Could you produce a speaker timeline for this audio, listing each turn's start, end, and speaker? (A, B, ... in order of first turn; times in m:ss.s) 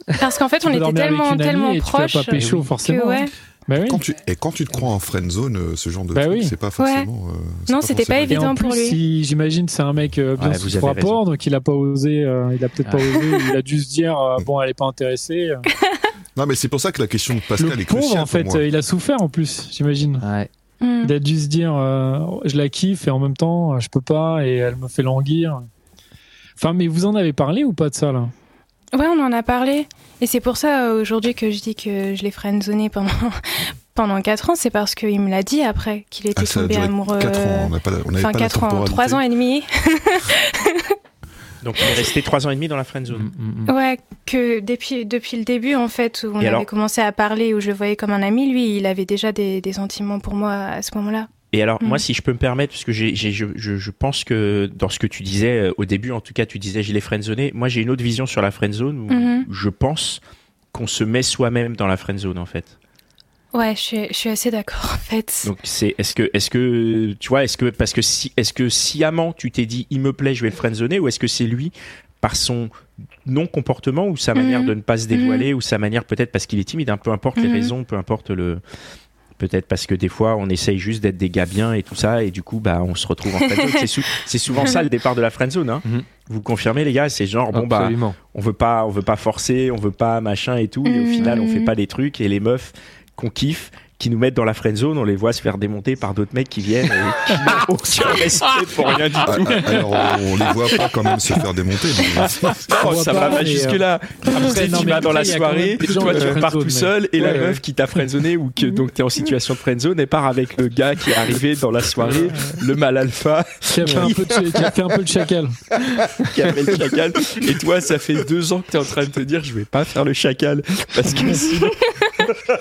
0:00.2-0:03.3 A
0:00.6-0:04.0 B
0:02.4-0:02.7 C
0:03.9-0:08.5 D
0:06.1-0:06.6 B
0:06.8-0:07.1 A
0:07.7-0:09.0 A
0:08.3-0:15.6 B
0:10.4-0:11.2 E
0:15.7-0:16.0 A
0:16.4-0:18.6 D
0:17.6-0:20.2 B
0:20.2-0:20.5 C
0:20.8-0:21.2 A
0:21.0-0:25.7 B
0:26.6-0:28.3 B
0:28.9-0:41.0 A
0:36.4-0:39.2 D
0:41.6-0:43.3 E
0:43.1-0:43.7 C
0:43.7-0:51.3 A
0:46.4-0:46.7 E
0:51.5-1:00.2 E
0:59.1-0:59.5 A
1:00.7-1:02.8 E
1:03.5-1:05.5 A
1:05.4-1:12.7 E
1:13.2-1:18.6 E
1:14.4-1:15.5 A
1:17.4-1:17.7 A
1:19.4-1:39.8 E
1:23.5-1:23.8 A
1:27.5-1:28.2 C
1:30.8-1:31.8 A
1:39.2-1:42.8 D
1:42.7-1:54.7 E
1:42.7-1:47.5 B
1:46.1-1:46.4 C
1:47.2-1:47.6 C
1:52.0-1:52.5 C
1:53.7-1:55.6 B
1:53.9-1:54.1 C
1:56.2-2:01.8 E